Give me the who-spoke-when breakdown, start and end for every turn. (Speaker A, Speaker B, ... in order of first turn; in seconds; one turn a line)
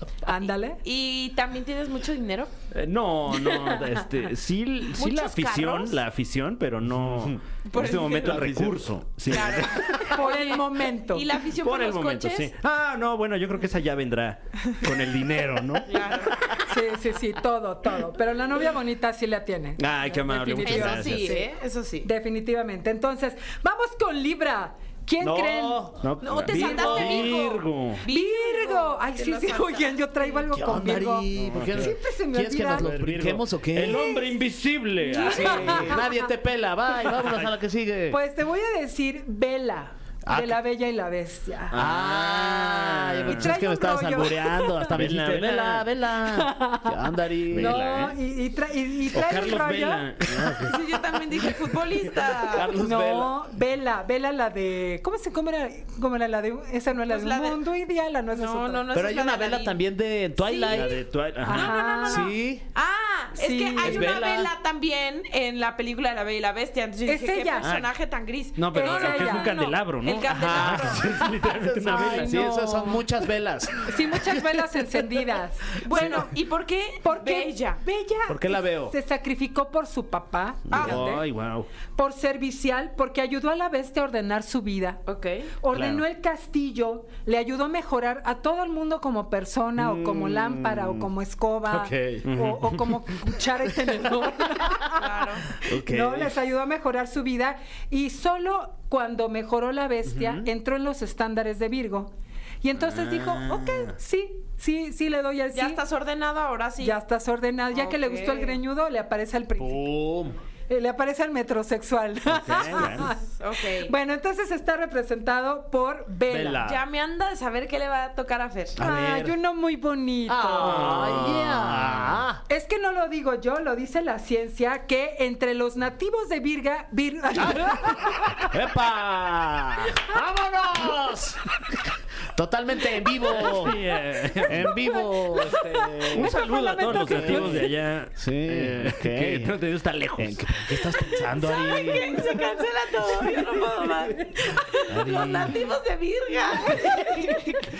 Speaker A: 0.2-0.8
Speaker B: 0.8-2.5
Speaker C: 2.7-10.2
Speaker A: 3.4-3.9
Speaker B: 5.0-6.0
Speaker D: 6.9-7.4
Speaker B: 7.7-8.5
Speaker D: 8.1-8.9
Speaker B: 9.3-12.5
Speaker A: 10.1-11.3
Speaker C: 11.6-16.6
Speaker B: 15.9-16.4
Speaker A: 16.6-27.4
Speaker C: 19.8-21.4
Speaker B: 20.6-22.1
Speaker C: 25.2-28.0
Speaker D: 25.2-25.6
Speaker B: 26.2-30.4
Speaker A: 28.0-33.0
Speaker D: 30.5-34.1
Speaker C: 31.3-32.0
Speaker C: 32.7-36.0
Speaker A: 33.9-34.3
Speaker A: 35.1-36.3
Speaker D: 35.3-38.2
Speaker C: 37.1-37.5
Speaker A: 38.1-41.8
Speaker D: 40.3-40.6
Speaker D: 41.7-47.8
Speaker C: 41.7-43.6
Speaker A: 43.2-45.1
Speaker C: 44.9-45.9
Speaker A: 46.3-50.1
Speaker C: 47.5-48.2
Speaker C: 49.1-50.8
Speaker D: 50.3-50.6
Speaker B: 50.7-52.7
Speaker D: 52.4-53.4
Speaker A: 52.7-58.9
Speaker B: 57.1-57.6
Speaker B: 58.3-59.8
Speaker D: 58.9-61.0
Speaker B: 60.4-71.2
Speaker C: 60.7-61.8
Speaker A: 61.4-62.4
Speaker D: 62.1-62.6
Speaker A: 63.4-64.3
Speaker D: 63.8-64.5
Speaker A: 67.1-67.7
Speaker C: 67.6-67.9
Speaker C: 68.6-72.5
Speaker A: 68.7-69.5
Speaker D: 70.3-74.5
Speaker A: 71.8-73.3
Speaker A: 73.8-76.3
Speaker B: 75.8-77.8
Speaker D: 75.9-76.2
Speaker A: 77.0-81.2
Speaker D: 78.3-78.9
Speaker C: 80.7-81.7
Speaker B: 80.7-81.0
Speaker A: 82.0-85.0
Speaker B: 85.1-85.5
Speaker A: 85.6-105.8
Speaker C: 85.7-86.0
Speaker D: 89.8-91.0
Speaker D: 91.7-92.3
Speaker C: 92.2-93.0
Speaker B: 95.0-95.5
Speaker D: 95.6-96.4
Speaker D: 100.1-100.5
Speaker D: 102.8-103.8
Speaker B: 105.5-107.0
Speaker A: 106.8-110.0
Speaker B: 107.7-108.6
Speaker D: 109.6-110.4
Speaker A: 110.7-116.7
Speaker C: 112.3-113.1
Speaker B: 113.3-113.9
Speaker C: 116.3-116.7
Speaker D: 116.3-116.6
Speaker B: 116.7-118.8
Speaker D: 118.8-119.3
Speaker A: 118.8-121.0
Speaker D: 120.3-122.4
Speaker C: 120.6-122.2
Speaker A: 122.5-128.5
Speaker D: 128.4-131.4
Speaker D: 132.3-133.8
Speaker C: 133.3-134.9
Speaker A: 134.3-137.7
Speaker D: 134.4-139.5
Speaker C: 136.1-141.1
Speaker D: 140.2-142.2
Speaker B: 141.3-147.7
Speaker C: 144.9-145.6
Speaker A: 146.7-147.3